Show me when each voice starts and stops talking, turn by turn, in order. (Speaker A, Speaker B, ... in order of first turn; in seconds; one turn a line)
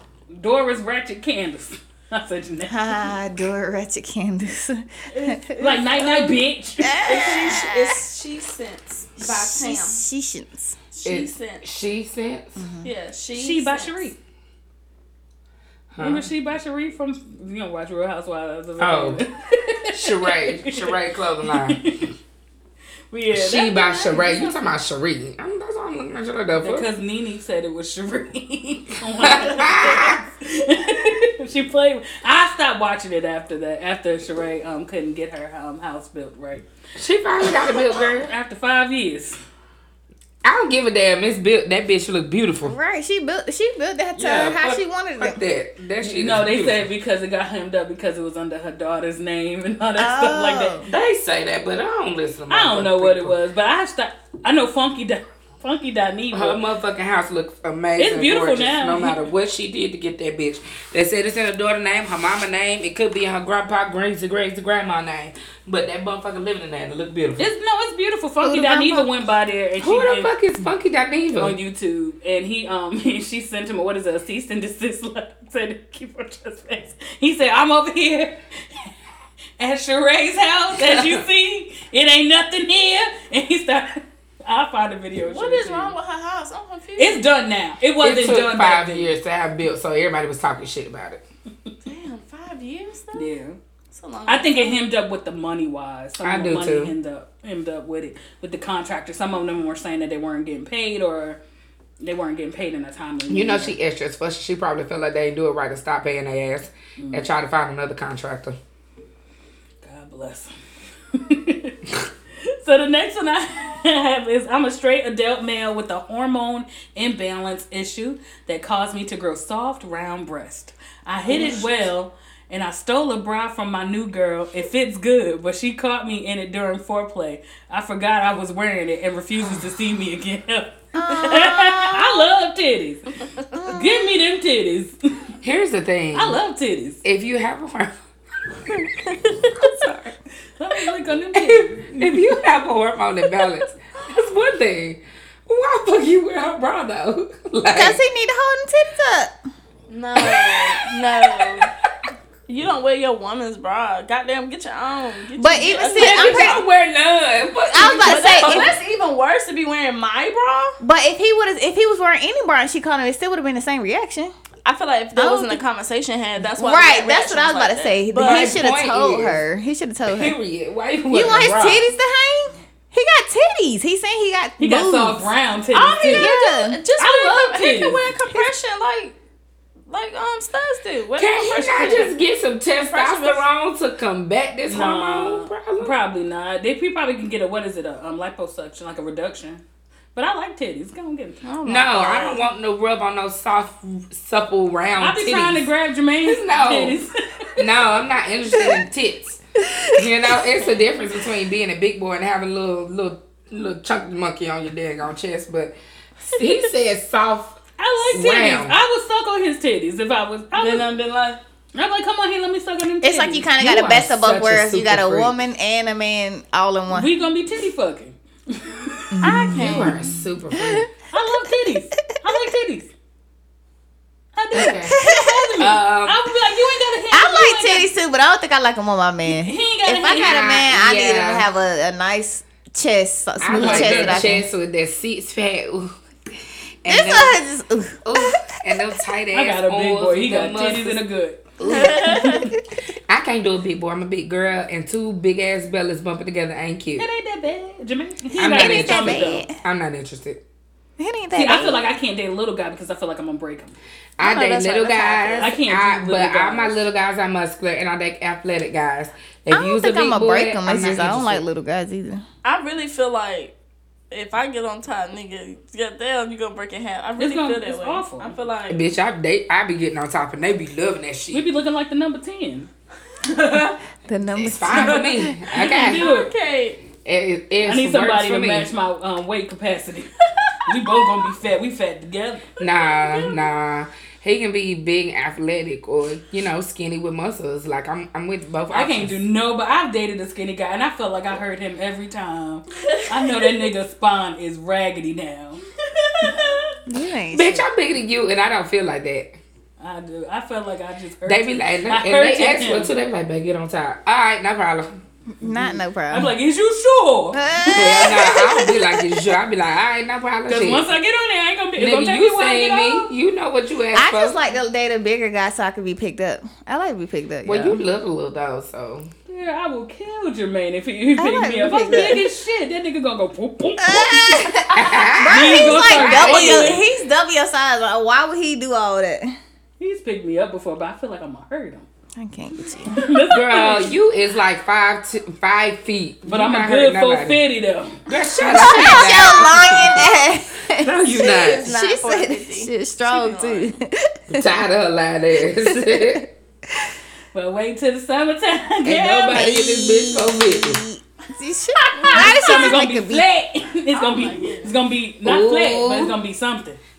Speaker A: 0.3-3.1
Speaker B: 2.7-5.8
Speaker C: 5.1-10.0
Speaker A: 5.6-7.3
Speaker B: 6.8-8.0
Speaker B: 9.2-10.8
Speaker C: 10.9-11.6
Speaker D: 11.0-12.6
Speaker B: 12.6-12.9
Speaker C: 12.8-14.1
Speaker A: 13.3-14.2
Speaker D: 15.9-16.3
Speaker A: 16.0-22.1
Speaker D: 18.8-19.2
Speaker D: 19.9-22.0
Speaker A: 23.1-24.5
Speaker D: 23.3-26.9
Speaker C: 24.1-24.5
Speaker A: 26.6-36.6
Speaker D: 29.2-30.2
Speaker D: 37.0-38.3
Speaker A: 37.6-39.4
Speaker D: 40.4-42.8
Speaker B: 42.6-45.4
Speaker D: 44.1-46.9
Speaker A: 46.0-50.8
Speaker B: 50.0-50.9
Speaker D: 50.8-53.4
Speaker A: 52.5-56.6
Speaker D: 56.3-67.5
Speaker A: 58.0-59.2
Speaker A: 67.4-70.3
Speaker B: 68.4-69.1
Speaker D: 69.8-71.5
Speaker A: 71.3-78.9
Speaker A: 79.6-85.9
Speaker D: 80.8-81.2
Speaker C: 85.2-87.2
Speaker A: 87.0-89.1
Speaker D: 88.0-91.2
Speaker C: 91.8-93.3
Speaker A: 93.1-93.6
Speaker C: 93.9-94.8
Speaker A: 94.3-101.4
Speaker D: 96.2-96.9
Speaker A: 102.0-103.8
Speaker D: 103.3-108.6
Speaker A: 107.0-107.3
Speaker A: 109.8-110.5
Speaker A: 111.1-111.8
Speaker A: 112.4-135.3
Speaker D: 121.3-121.7
Speaker B: 130.9-132.3
Speaker B: 133.5-134.2
Speaker D: 135.4-136.4
Speaker A: 136.1-137.0
Speaker D: 137.0-138.0
Speaker C: 138.9-139.7
Speaker D: 139.6-140.1
Speaker A: 140.6-142.1
Speaker D: 141.3-148.0
Speaker B: 147.7-149.4
Speaker C: 149.9-151.7
Speaker D: 150.2-151.7
Speaker C: 152.5-156.6
Speaker B: 155.4-156.6
Speaker D: 155.9-158.7
Speaker B: 157.7-158.7
Speaker C: 157.8-160.8
Speaker B: 160.8-164.3
Speaker C: 164.6-168.6
Speaker B: 165.2-165.6
Speaker B: 166.5-170.4
Speaker D: 168.2-169.4
Speaker D: 170.1-171.8
Speaker B: 171.1-175.3
Speaker A: 174.6-176.3
Speaker C: 175.7-179.1
Speaker B: 176.1-176.8
Speaker A: 177.0-178.0
Speaker C: 179.9-182.2
Speaker D: 181.2-185.9
Speaker C: 182.9-183.4
Speaker A: 184.7-189.6
Speaker A: 190.1-191.4
Speaker C: 191.4-192.4
Speaker D: 191.6-195.7
Speaker A: 195.0-197.7
Speaker D: 196.2-197.0
Speaker D: 197.6-208.8
Speaker B: 199.6-200.4
Speaker A: 207.8-210.9
Speaker C: 210.6-211.4
Speaker A: 211.7-213.5
Speaker B: 213.0-217.1
Speaker D: 213.6-215.3
Speaker A: 216.9-219.3
Speaker B: 219.2-220.0
Speaker D: 219.2-220.9
Speaker C: 219.2-220.0
Speaker B: 220.6-221.6
Speaker A: 221.1-222.9
Speaker A: 224.3-227.9
Speaker D: 224.5-225.0
Speaker B: 224.8-225.6
Speaker D: 225.6-226.2
Speaker B: 227.1-234.4
Speaker A: 229.3-230.5
Speaker D: 230.1-231.4
Speaker D: 233.4-236.0
Speaker A: 233.5-234.4
Speaker D: 236.8-237.4
Speaker B: 236.9-238.8
Speaker D: 238.1-241.0
Speaker A: 239.3-242.5
Speaker D: 241.6-242.5
Speaker C: 241.6-242.5
Speaker B: 242.0-242.6
Speaker D: 243.1-247.1
Speaker A: 247.0-249.4
Speaker B: 248.4-249.6
Speaker D: 248.4-250.4
Speaker B: 251.0-251.8
Speaker A: 251.3-253.7
Speaker D: 254.2-261.4
Speaker C: 254.2-255.5
Speaker A: 255.4-256.9
Speaker B: 259.5-262.2
Speaker C: 262.4-263.5
Speaker C: 264.1-268.9
Speaker A: 267.2-268.3
Speaker D: 268.7-271.4
Speaker A: 271.3-272.7
Speaker C: 273.4-273.7
Speaker B: 274.1-275.4
Speaker D: 274.4-276.1
Speaker A: 274.7-275.0
Speaker A: 275.5-276.3
Speaker C: 275.6-276.8
Speaker D: 277.0-278.7
Speaker A: 277.6-282.5
Speaker D: 282.6-289.2
Speaker C: 282.6-283.4
Speaker A: 288.7-295.6
Speaker C: 292.9-293.5
Speaker C: 295.9-296.7
Speaker A: 296.2-296.6
Speaker B: 296.9-297.7
Speaker D: 297.3-299.4
Speaker A: 299.8-302.9
Speaker D: 301.2-304.9
Speaker B: 305.4-306.3
Speaker A: 306.1-308.0
Speaker B: 307.3-309.2
Speaker D: 307.7-310.9
Speaker A: 310.5-313.1
Speaker D: 311.8-314.4
Speaker B: 313.9-317.8
Speaker D: 317.4-319.1
Speaker A: 319.3-324.7
Speaker B: 321.2-322.2
Speaker B: 323.8-329.3
Speaker D: 324.7-326.8
Speaker A: 325.2-326.9
Speaker A: 329.8-331.9
Speaker B: 332.1-333.1
Speaker A: 332.9-333.9
Speaker D: 333.3-337.4
Speaker A: 336.2-338.1
Speaker D: 338.1-341.6
Speaker B: 338.4-344.5
Speaker C: 341.1-343.8
Speaker D: 344.3-346.3
Speaker B: 345.4-346.9
Speaker A: 347.3-349.5
Speaker D: 348.9-350.8
Speaker B: 349.3-353.2
Speaker A: 351.8-356.8
Speaker C: 353.9-354.7
Speaker D: 355.2-356.1